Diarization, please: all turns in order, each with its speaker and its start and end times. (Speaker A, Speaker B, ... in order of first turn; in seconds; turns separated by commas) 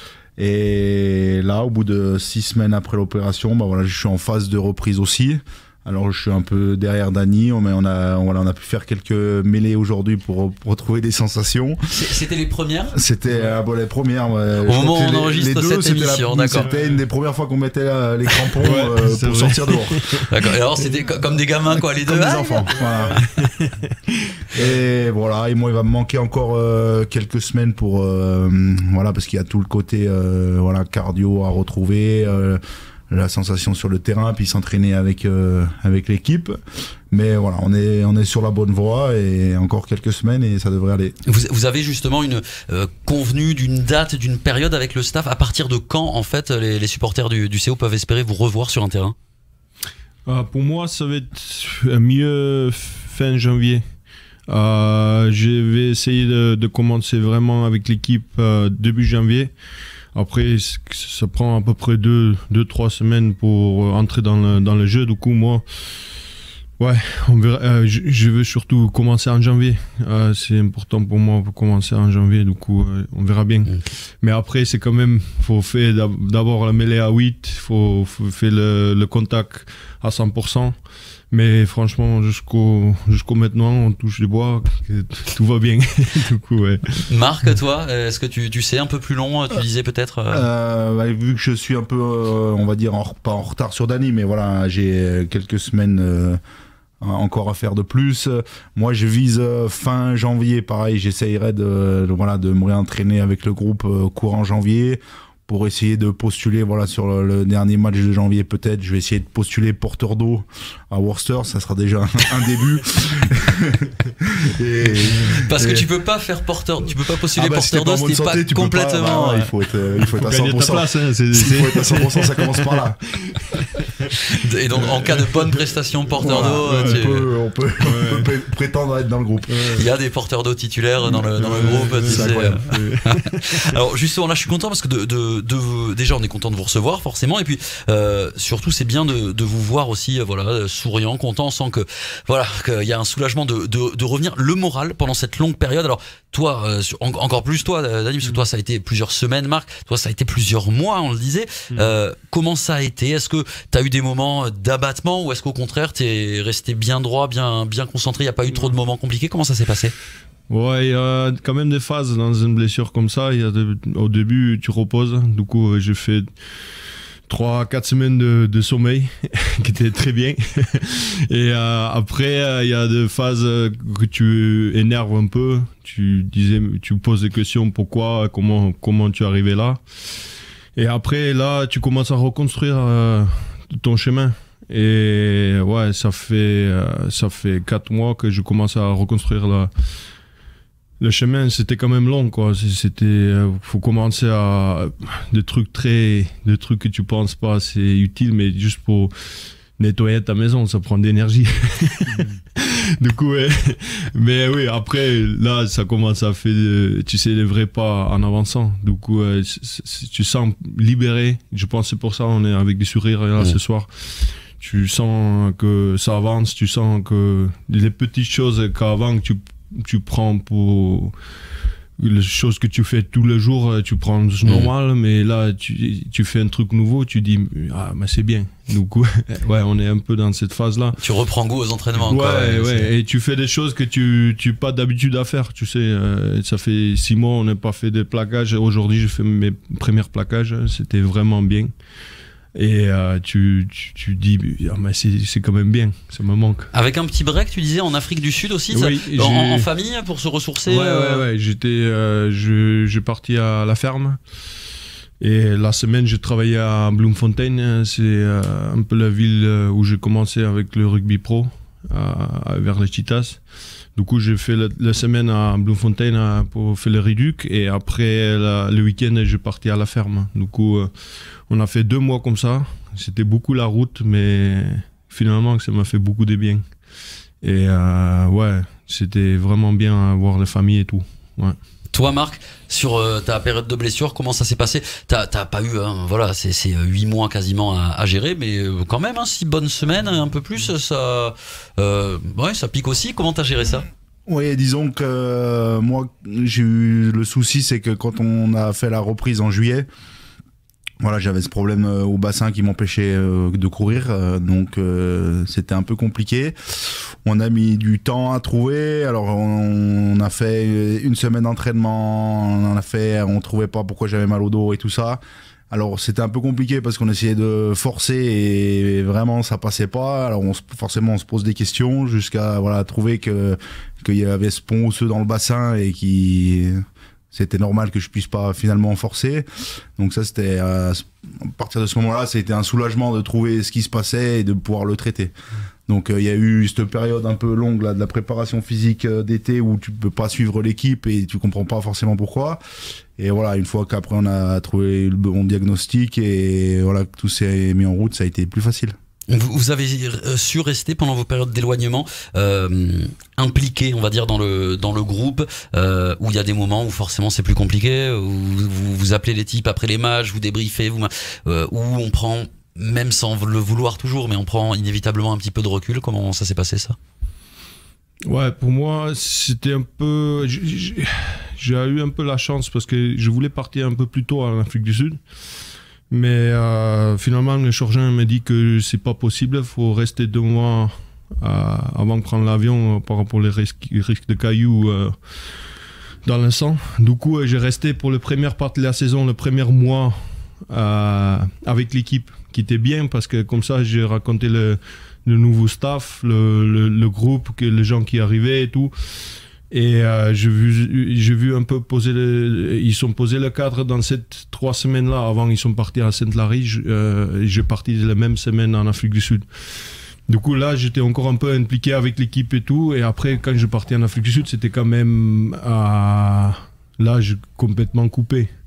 Speaker A: 0.4-11.8, Speaker B: 11.9-12.9, Speaker A: 12.9-20.0, Speaker C: 13.3-13.6, Speaker B: 14.6-16.7, Speaker C: 16.5-17.0, Speaker C: 18.6-20.3, Speaker B: 20.3-22.7, Speaker A: 22.0-23.2, Speaker C: 22.7-24.8, Speaker A: 24.5-36.6, Speaker A: 37.1-41.1, Speaker B: 41.2-49.1, Speaker C: 50.2-53.8, Speaker C: 54.5-59.5, Speaker C: 60.1-65.6, Speaker C: 66.8-80.8, Speaker C: 81.3-87.0, Speaker B: 87.1-90.5, Speaker A: 90.3-96.4, Speaker A: 97.0-115.9, Speaker B: 115.5-119.5, Speaker A: 117.3-123.0, Speaker C: 120.0-124.1, Speaker B: 124.3-127.3, Speaker C: 124.8-125.5, Speaker C: 126.2-127.2, Speaker A: 126.2-129.7, Speaker C: 127.8-128.3, Speaker C: 129.5-129.9, Speaker B: 129.8-159.9, Speaker C: 131.1-133.5, Speaker A: 132.0-132.6, Speaker C: 160.5-166.3, Speaker C: 167.3-179.8, Speaker C: 180.7-189.7, Speaker C: 191.0-221.1, Speaker C: 222.0-231.0, Speaker B: 224.4-224.7, Speaker B: 231.0-232.9, Speaker C: 232.0-241.7, Speaker C: 242.5-246.7, Speaker B: 246.7-251.2, Speaker C: 248.7-249.7, Speaker C: 250.6-254.2, Speaker C: 255.2-263.4, Speaker C: 263.9-270.9, Speaker C: 271.5-276.6, Speaker C: 277.4-281.6, Speaker B: 281.9-293.9, Speaker A: 294.3-299.9, Speaker A: 301.0-326.8, Speaker A: 327.3-329.4, Speaker A: 330.0-335.3, Speaker A: 335.9-342.6, Speaker A: 343.2-348.9, Speaker B: 349.3-366.9, Speaker C: 368.2-375.2, Speaker C: 376.1-385.2, Speaker C: 386.2-398.9, Speaker C: 399.7-418.5